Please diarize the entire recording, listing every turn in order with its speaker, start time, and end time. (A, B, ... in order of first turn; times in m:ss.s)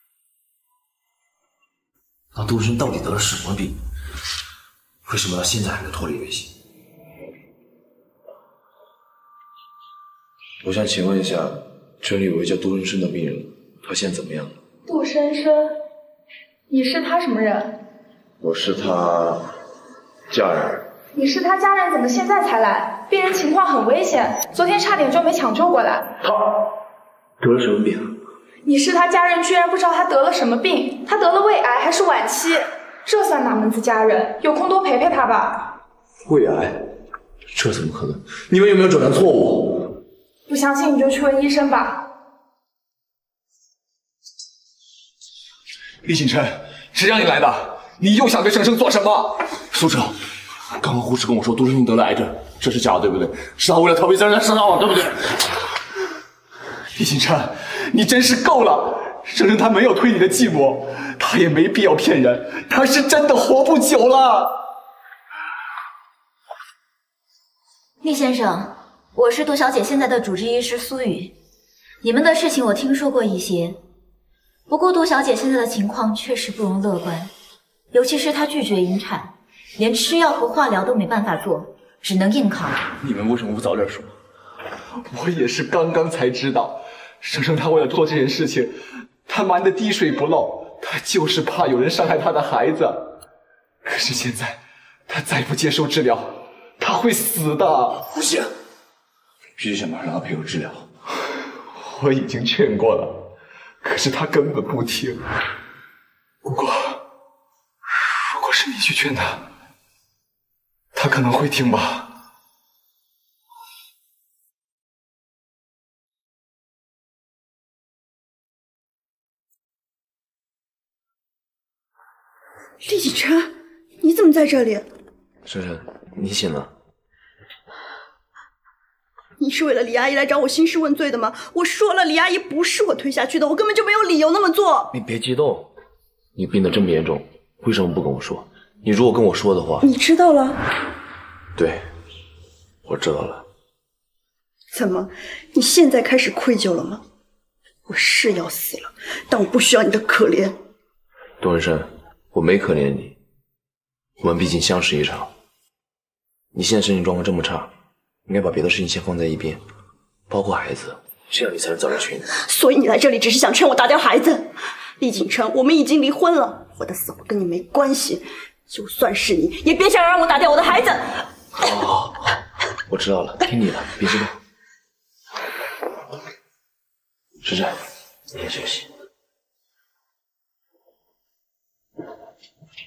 0:02.3-0:03.8 A
0:05.0-0:06.5 A
0:10.6-0:14.6 A
0:14.9-0:15.8 B
0:16.7-0:17.8 B
0:18.4-0:19.5 A
0:20.3-0:20.9 A
0:21.1-0:26.1 B
0:27.4-0:28.2 A
0:28.6-0:35.7 B
0:36.2-0:36.9 A
0:37.5-0:40.0 A
0:40.5-0:42.0 B
0:46.0-0:50.0 C
0:50.7-0:55.5 A
0:57.0-1:04.6 C
1:08.0-1:11.3 D
1:12.0-1:13.8 D
1:14.7-1:17.3 D
1:17.9-1:22.8 D
1:23.0-1:24.2 A
1:25.0-1:33.2 C
1:33.8-1:38.0 C
1:38.1-1:38.5 A
1:39.6-1:40.9 A
1:41.7-1:43.3 C
1:43.8-1:45.2 C
1:46.4-1:47.0 C
1:48.0-1:49.5 C
1:50.9-1:52.1 C
2:02.8-2:04.9 E
2:05.4-2:06.7 A
2:09.4-2:14.9 E
2:14.9-2:15.7 A
2:16.4-2:19.9 A
2:19.8-2:20.6 E
2:21.6-2:21.9 A
2:22.8-2:23.4 A
2:24.7-2:27.0 E
2:27.9-2:30.6 E
2:31.4-2:33.2 A
2:34.2-2:35.3 A
2:36.5-2:37.7 A
2:38.3-2:39.6 A
2:40.3-2:42.3 A
2:42.4-2:51.3 E
2:51.5-2:54.4 A
2:57.4-2:57.8 A
2:58.3-2:58.9 A